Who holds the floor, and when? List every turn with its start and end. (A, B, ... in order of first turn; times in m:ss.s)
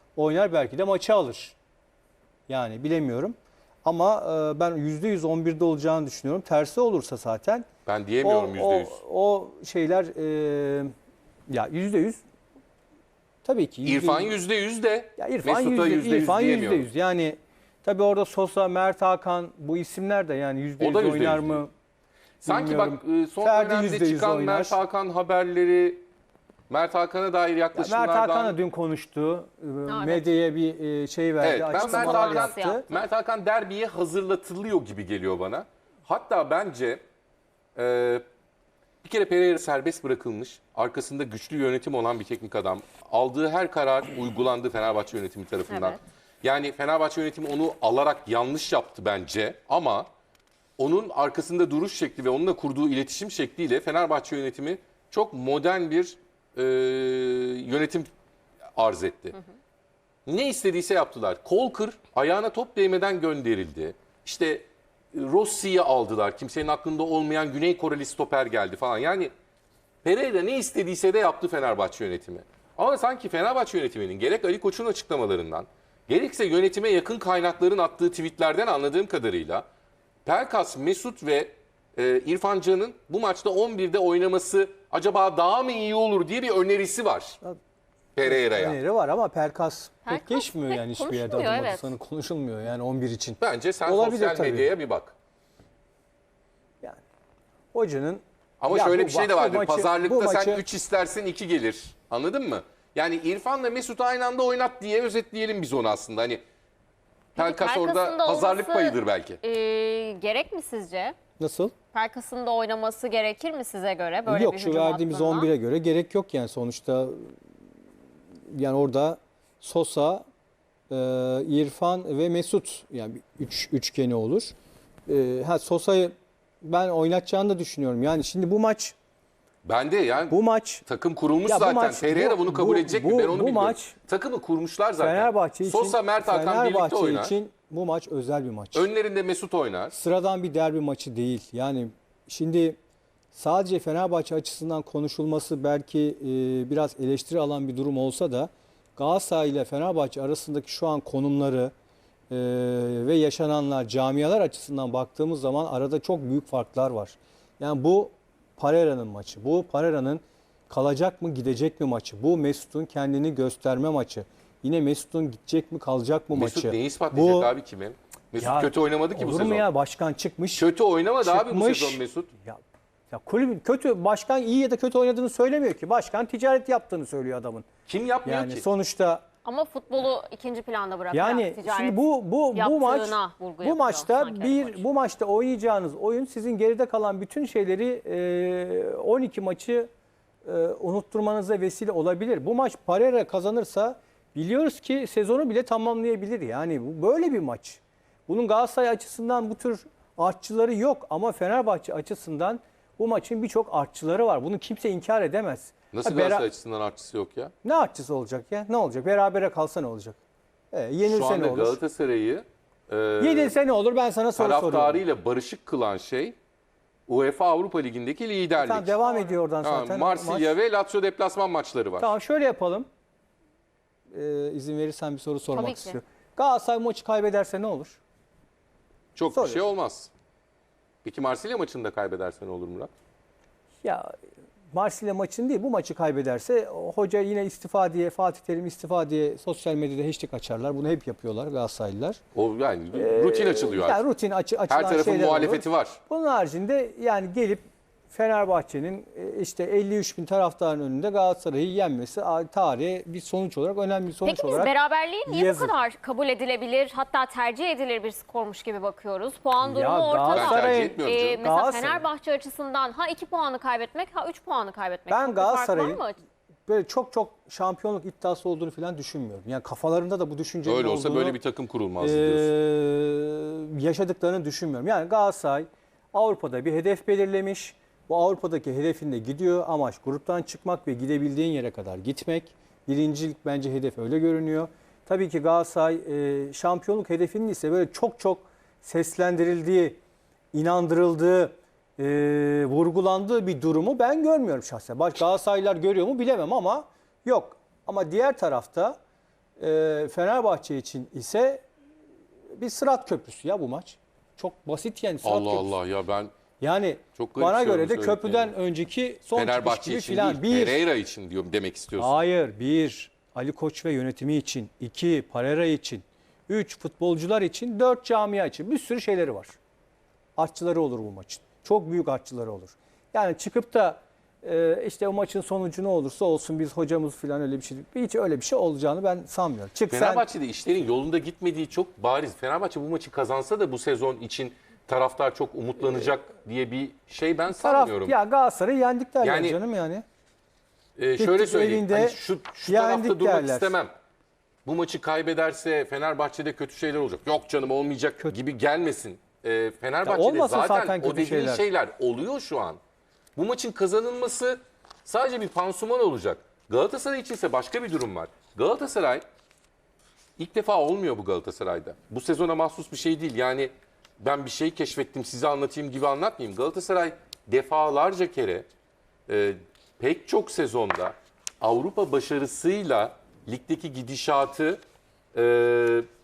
0:00.2-0:01.6 A
0:02.5-0:07.7 A
0:07.9-0:09.0 B
0:08.2-0:10.9 A
0:11.5-0:12.2 A
0:13.4-0:14.4 A
0:13.8-0:16.9 B
0:15.2-0:21.7 A
0:20.8-0:21.6 B
0:22.4-0:26.1 B
0:22.4-0:24.8 A
0:26.7-0:28.6 B
0:27.8-0:32.9 A
0:29.9-0:30.3 C
0:31.4-0:37.0 B
0:31.7-0:32.8 C
0:37.8-0:38.2 B
0:39.0-0:50.1 B
0:45.7-0:46.0 C
0:50.8-0:58.1 B
0:58.8-0:59.4 B
1:00.3-1:09.3 B
1:10.0-1:19.7 B
1:20.3-1:27.4 B
1:28.2-1:28.8 B
1:28.2-1:34.7 A
1:30.0-1:31.9 C
1:33.4-1:35.2 B
1:37.7-1:40.6 A
1:38.6-1:46.4 B
1:47.4-1:51.2 C
1:47.4-1:49.4 B
1:51.4-1:51.7 A
1:51.9-1:55.5 C
1:54.3-1:57.3 A
1:58.5-2:00.2 A
2:00.9-2:04.6 A
2:05.1-2:09.0 A
2:09.6-2:17.4 B
2:10.3-2:10.8 A
2:11.5-2:14.0 A
2:15.0-2:18.9 A
2:18.7-2:20.0 B
2:19.9-2:22.8 A
2:23.3-2:31.7 A
2:32.3-2:47.6 A
2:46.3-2:49.7 B
2:48.4-2:50.7 A
2:50.6-2:52.3 B
2:51.2-2:57.7 A
2:57.9-2:58.7 B
2:58.2-2:59.2 A
2:59.4-3:02.0 C
3:01.1-3:09.9 A
3:02.5-3:04.8 C
3:10.4-3:26.5 A
3:25.9-3:27.5 B
3:27.6-3:30.2 A
3:30.7-3:31.8 A
3:31.1-3:33.6 B
3:33.2-3:35.0 A
3:34.4-3:36.4 B
3:37.1-3:39.0 B
3:38.6-3:40.5 A
3:39.0-3:39.4 C
3:39.6-3:42.1 B
3:42.0-3:42.9 A
3:44.1-3:48.0 A
3:45.5-3:46.0 C
3:49.2-3:50.1 B
3:49.3-3:49.6 A
3:51.0-3:52.9 B
3:53.8-3:54.1 A
3:54.7-4:02.2 A
4:02.4-4:04.0 B
4:03.0-4:14.8 A
4:04.7-4:06.0 B
4:14.2-4:26.2 C
4:15.3-4:15.8 A
4:19.6-4:22.0 A
4:20.3-4:21.4 B
4:25.1-4:26.0 A
4:26.7-4:31.4 A
4:30.6-4:32.5 B
4:32.0-4:50.0 A
4:50.5-4:59.0 A
4:59.6-5:01.6 A
5:02.6-5:05.7 A
5:05.2-5:06.3 B
5:06.6-5:10.8 A
5:07.2-5:08.5 B
5:09.3-5:12.2 B
5:12.0-5:19.6 A
5:20.4-5:30.2 A
5:29.9-5:38.2 B
5:37.5-5:40.0 A
5:39.2-5:39.6 B
5:41.0-5:43.9 B
5:41.2-5:43.8 A
5:44.6-5:52.8 B
5:50.0-5:51.6 A
5:53.4-5:59.2 B
6:00.4-6:08.7 B
6:09.3-6:14.8 B
6:15.3-6:16.1 B